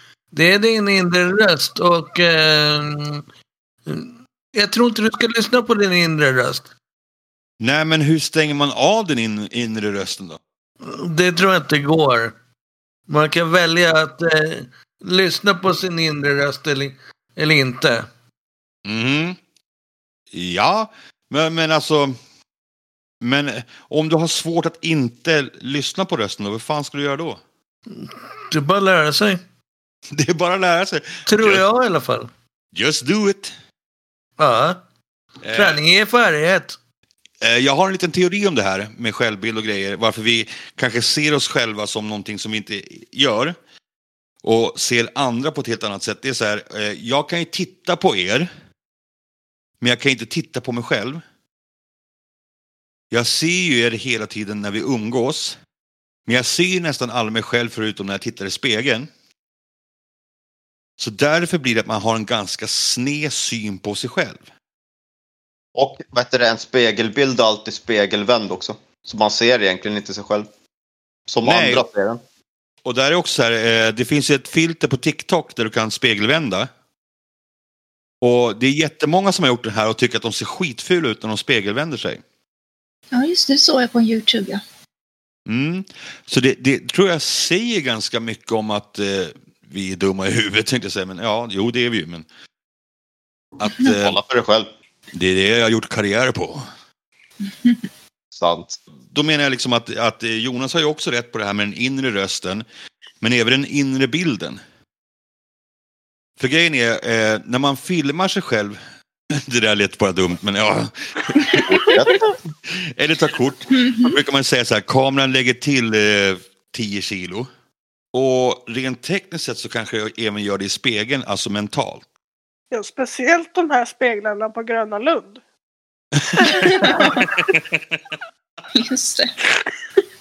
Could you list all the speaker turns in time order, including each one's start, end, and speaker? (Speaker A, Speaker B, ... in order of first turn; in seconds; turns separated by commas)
Speaker A: 0.3-3.2, Speaker A: 3.9-6.7, Speaker B: 7.6-10.4, Speaker A: 10.8-12.3, Speaker A: 13.1-18.1, Speaker B: 18.8-19.4, Speaker B: 20.3-22.1, Speaker B: 23.2-27.4, Speaker A: 27.9-29.4, Speaker B: 30.1-31.6, Speaker A: 31.3-32.3, Speaker B: 32.7-33.5, Speaker A: 34.4-34.8, Speaker B: 35.4-35.8, Speaker A: 35.5-36.8, Speaker B: 37.4-43.5, Speaker B: 44.4-48.5, Speaker B: 49.8-51.2, Speaker B: 53.1-55.6, Speaker B: 56.2-59.1, Speaker B: 61.0-64.4, Speaker C: 65.7-70.5, Speaker C: 71.3-72.2, Speaker B: 71.4-71.8, Speaker B: 72.8-76.7, Speaker B: 78.2-82.2, Speaker D: 83.1-84.6, Speaker B: 85.5-92.2, Speaker B: 93.6-94.2, Speaker C: 93.9-94.7, Speaker B: 95.1-96.6, Speaker D: 97.5-97.8, Speaker C: 98.3-98.8, Speaker B: 99.1-102.6, Speaker B: 103.2-104.6, Speaker B: 106.4-108.8, Speaker B: 109.3-112.0, Speaker C: 111.7-112.1, Speaker B: 112.7-117.5, Speaker D: 113.7-114.1, Speaker B: 118.1-122.0, Speaker E: 122.7-125.4, Speaker B: 126.2-127.8, Speaker E: 126.4-127.3, Speaker D: 126.4-127.3, Speaker D: 128.7-129.3